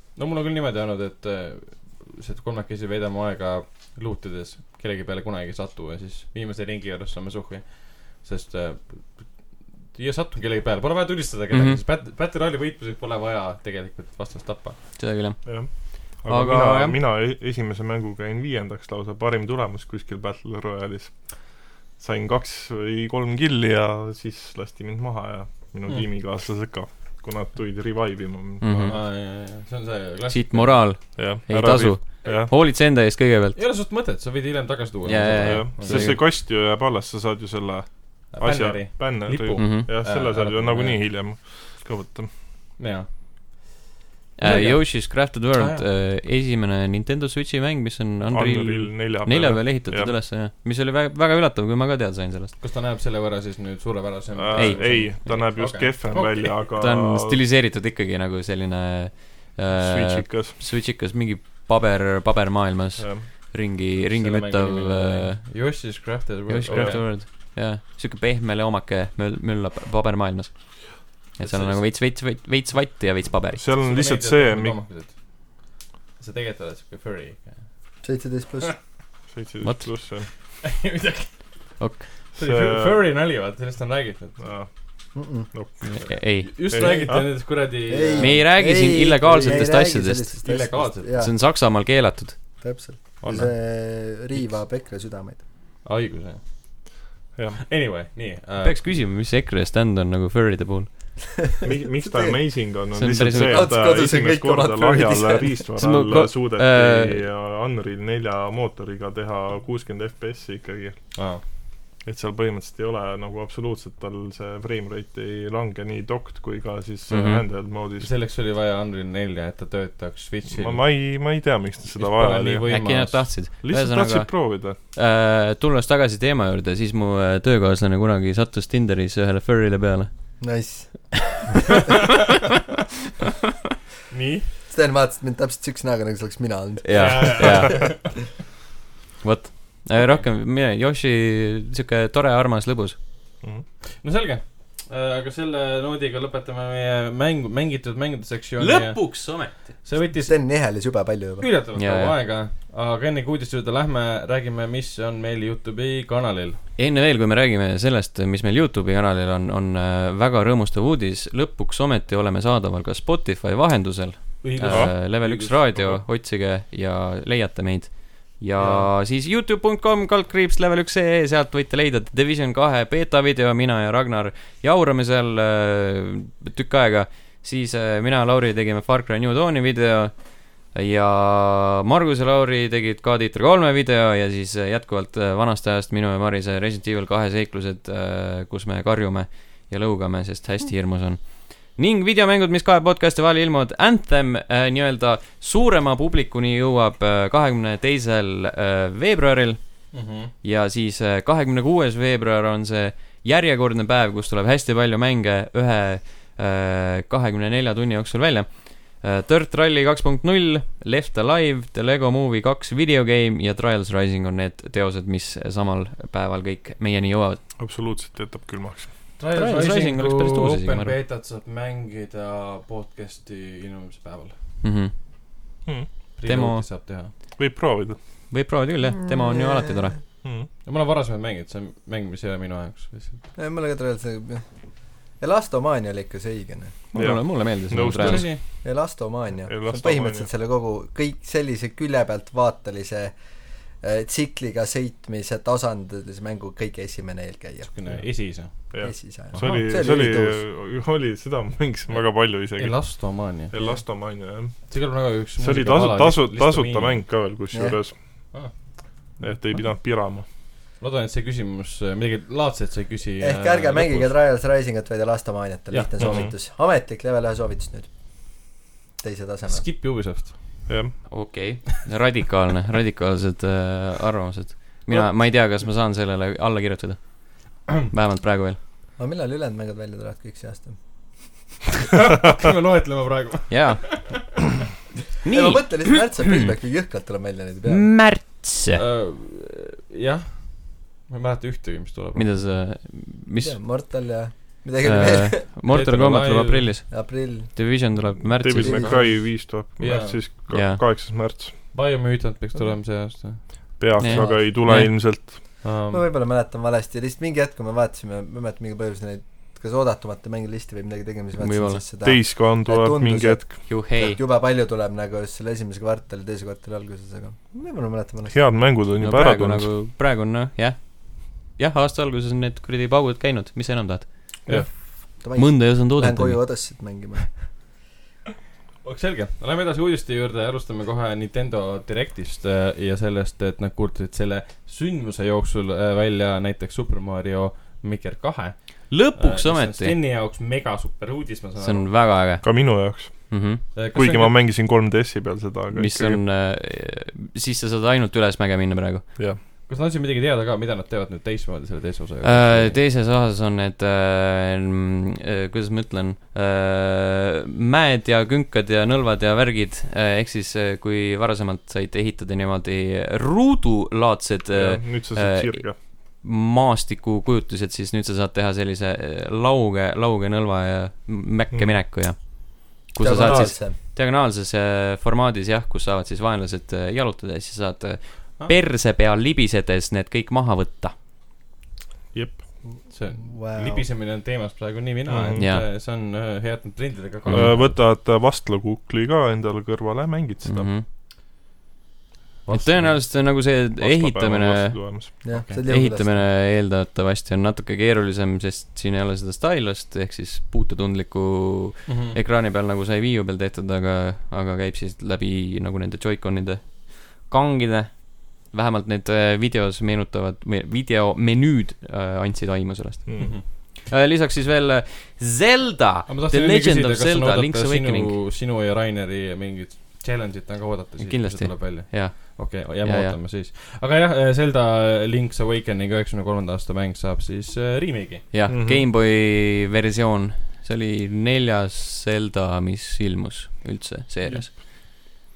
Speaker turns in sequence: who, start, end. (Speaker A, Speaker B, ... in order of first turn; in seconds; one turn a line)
Speaker A: 0.2-14.8
Speaker B: 11.5-11.8
Speaker B: 15.0-17.0
Speaker C: 15.4-29.0
Speaker B: 28.6-29.0
Speaker A: 28.9-30.9
Speaker B: 30.3-33.6
Speaker C: 31.1-32.5
Speaker A: 33.5-36.2
Speaker B: 35.1-36.2
Speaker C: 35.5-42.3
Speaker A: 38.3-41.1
Speaker B: 39.5-39.9
Speaker A: 42.8-43.6
Speaker B: 44.4-52.5
Speaker A: 44.4-45.9
Speaker C: 48.3-50.2
Speaker A: 52.6-56.6
Speaker C: 54.4-57.4
Speaker B: 54.5-55.0
Speaker B: 56.8-65.5
Speaker C: 59.7-60.6
Speaker C: 63.0-63.3
Speaker A: 64.1-67.1
Speaker B: 66.5-73.6
Speaker C: 66.7-67.0
Speaker A: 71.4-71.8
Speaker C: 73.6-74.8
Speaker A: 73.8-75.1
Speaker A: 76.2-77.6
Speaker D: 78.0-78.7
Speaker C: 79.3-80.3
Speaker A: 80.6-81.4
Speaker B: 81.8-82.1
Speaker A: 82.3-84.5
Speaker C: 82.4-83.0
Speaker C: 84.4-84.7
Speaker D: 85.2-85.5
Speaker C: 85.5-86.0
Speaker B: 85.8-86.5
Speaker A: 86.0-88.4
Speaker C: 86.7-87.4
Speaker D: 87.9-91.3
Speaker B: 88.2-90.3
Speaker A: 90.4-91.2
Speaker B: 91.1-92.4
Speaker D: 92.6-95.4
Speaker A: 93.2-93.5
Speaker A: 95.8-96.4
Speaker A: 97.6-98.9
Speaker B: 98.6-101.2
Speaker D: 101.6-102.6
Speaker C: 101.6-111.2
Speaker B: 103.0-103.8
Speaker D: 103.3-105.6
Speaker B: 105.8-107.2
Speaker A: 111.1-111.4
Speaker C: 112.0-118.1
Speaker B: 117.1-117.5
Speaker A: 118.0-120.8
Speaker C: 120.5-122.7
Speaker A: 122.0-123.3
Speaker B: 122.7-130.1
Speaker C: 123.6-124.8
Speaker D: 130.4-131.5
Speaker A: 134.1-134.5
Speaker D: 134.7-137.7
Speaker B: 136.8-138.0
Speaker A: 136.9-138.1
Speaker B: 139.2-143.0
Speaker A: 144.0-150.4
Speaker B: 148.6-149.7
Speaker D: 150.2-151.5
Speaker A: 151.4-156.6
Speaker B: 151.8-152.2
Speaker B: 156.8-217.4
Speaker A: 164.4-165.6
Speaker C: 164.7-165.0
Speaker C: 165.7-166.0
Speaker A: 168.6-168.9
Speaker A: 199.9-200.3
Speaker C: 217.6-218.9
Speaker A: 219.2-224.4
Speaker B: 219.3-221.0
Speaker B: 224.6-224.9
Speaker A: 226.2-227.1
Speaker B: 226.2-226.7
Speaker C: 227.4-228.0
Speaker B: 228.3-230.0
Speaker D: 229.2-229.8
Speaker A: 230.6-233.2
Speaker D: 233.4-234.4
Speaker D: 235.1-236.8
Speaker B: 236.9-238.3
Speaker C: 236.9-238.6
Speaker A: 237.9-238.4
Speaker D: 238.6-243.2
Speaker C: 239.5-240.3
Speaker D: 243.8-247.7
Speaker A: 247.6-249.7
Speaker C: 248.7-254.7
Speaker D: 248.8-250.4
Speaker A: 251.9-253.5
Speaker D: 253.6-253.8
Speaker A: 254.7-257.1
Speaker C: 255.4-258.0
Speaker D: 257.5-257.8
Speaker C: 259.2-260.2
Speaker A: 260.8-264.1
Speaker D: 263.2-267.9
Speaker A: 265.7-266.3
Speaker C: 266.0-266.3
Speaker D: 269.0-269.6
Speaker A: 269.5-270.7
Speaker C: 270.7-270.9
Speaker B: 271.1-278.6
Speaker D: 279.0-280.8
Speaker A: 281.9-284.2
Speaker B: 283.5-284.0
Speaker B: 285.2-286.3
Speaker D: 285.3-287.9
Speaker B: 287.7-288.8
Speaker A: 288.8-292.3
Speaker B: 292.1-293.6
Speaker D: 293.4-295.4
Speaker B: 294.8-298.9
Speaker A: 295.7-296.7
Speaker D: 296.9-297.6
Speaker C: 298.4-301.6
Speaker D: 298.6-299.0
Speaker A: 298.8-299.2
Speaker A: 299.8-300.3
Speaker B: 300.5-300.8
Speaker A: 301.7-303.8
Speaker C: 303.8-305.6
Speaker B: 304.0-304.9
Speaker D: 304.1-304.4
Speaker A: 305.6-306.0
Speaker D: 305.9-318.4
Speaker B: 311.4-311.8
Speaker C: 312.0-313.6
Speaker B: 313.7-314.2
Speaker C: 318.3-319.7
Speaker B: 319.0-324.5
Speaker D: 324.7-327.5
Speaker B: 325.3-326.5
Speaker A: 328.8-341.9
Speaker B: 338.9-340.0
Speaker B: 341.6-343.6
Speaker C: 342.4-346.2
Speaker A: 343.7-344.4
Speaker B: 345.7-349.1
Speaker A: 349.7-352.8
Speaker B: 352.2-380.9
Speaker C: 364.5-365.8
Speaker C: 371.5-371.8
Speaker D: 373.0-373.8
Speaker A: 373.2-373.5
Speaker C: 382.1-382.6
Speaker D: 382.7-383.9
Speaker A: 382.9-387.8
Speaker C: 385.1-385.4
Speaker B: 385.4-385.7
Speaker B: 387.3-387.7
Speaker C: 387.3-390.7
Speaker B: 390.4-390.9
Speaker A: 392.4-393.0
Speaker B: 392.5-418.2
Speaker C: 393.8-395.1
Speaker D: 395.2-396.2
Speaker A: 395.3-395.6
Speaker A: 401.9-402.2
Speaker C: 413.1-413.4
Speaker A: 413.2-413.4
Speaker A: 416.1-428.3
Speaker B: 421.0-423.2
Speaker B: 428.3-435.1
Speaker C: 428.5-428.9
Speaker C: 434.2-434.6